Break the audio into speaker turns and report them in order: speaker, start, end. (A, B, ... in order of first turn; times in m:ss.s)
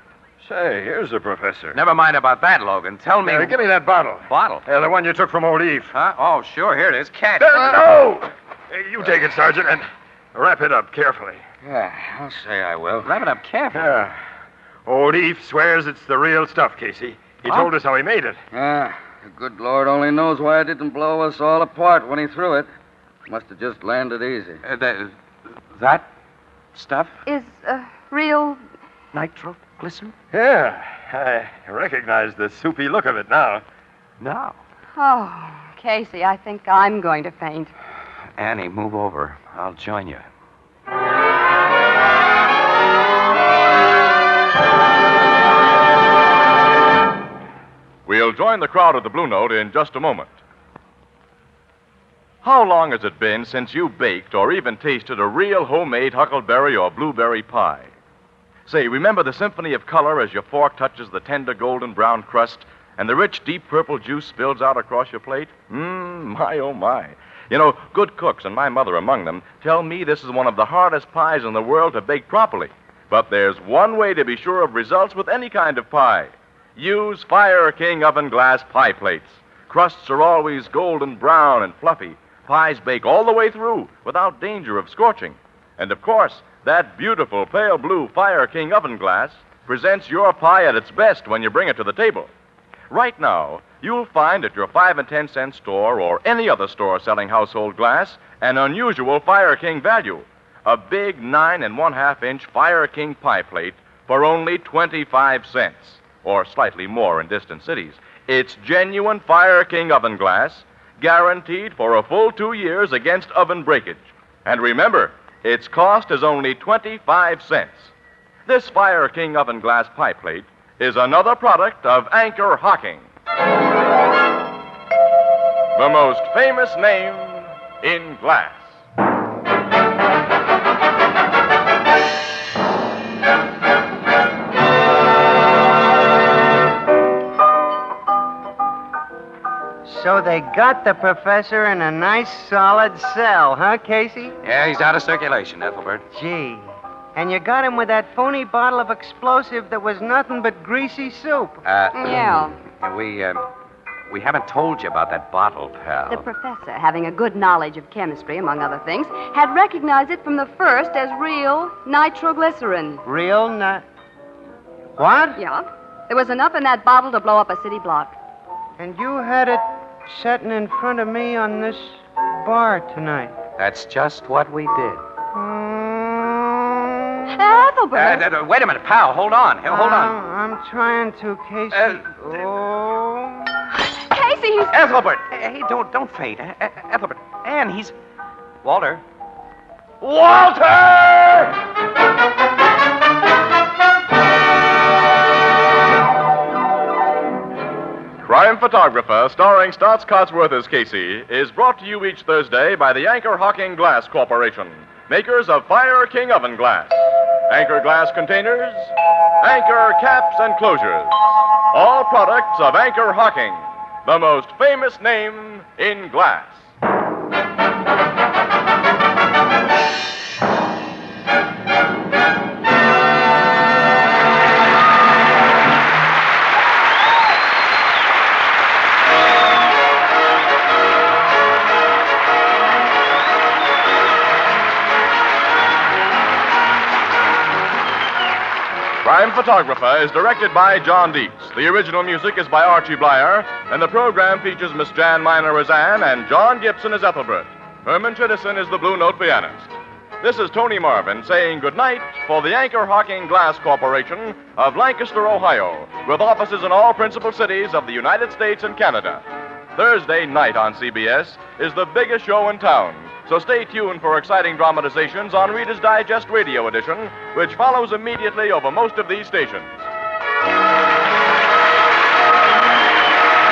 0:00.4-0:01.8 A
0:01.7-0:03.6 B
0:03.2-0:05.9 A
0:04.2-0:04.6 B
0:05.9-0:07.8 B
0:07.4-0:11.4 A
0:11.6-0:13.1 C
0:13.0-0:13.9 B
0:13.7-0:14.2 A
0:14.8-0:18.4 A
0:18.5-0:22.7 C
0:23.3-0:24.6 C
0:24.6-0:25.1 B
0:25.7-0:26.1 B
0:26.7-0:27.2 B
0:27.2-0:28.6 D
0:29.1-0:30.1 B
0:30.3-0:33.6 A
0:34.2-0:34.6 B
0:35.0-0:37.7 D
0:38.4-0:40.3 B
0:48.0-0:50.3 E
0:52.4-0:57.9 E
0:58.7-1:32.3 E
1:32.9-1:57.9 E
1:58.4-2:03.1 E
2:05.7-2:08.8 E
2:19.8-2:24.3 F
2:24.4-2:26.0 B
2:26.1-2:31.6 F
2:31.6-2:33.4 B
2:31.9-2:32.6 D
2:34.1-2:36.2 B
2:36.1-2:43.0 D
2:43.0-2:43.8 F
2:45.0-2:45.4 F
2:45.4-2:48.1 D
2:48.8-2:53.3 F
2:53.6-2:55.0 B
2:55.3-2:57.2 F
2:57.3-2:58.2 D
2:57.9-3:00.2 B
2:59.7-3:03.6 F
3:01.7-3:02.1 B
3:03.8-3:04.7 D
3:04.7-3:08.0 B
3:08.6-3:09.0 B
3:10.0-3:11.4 E
3:18.2-3:36.7 E
3:59.0-4:19.2 E
4:19.8-4:29.9 E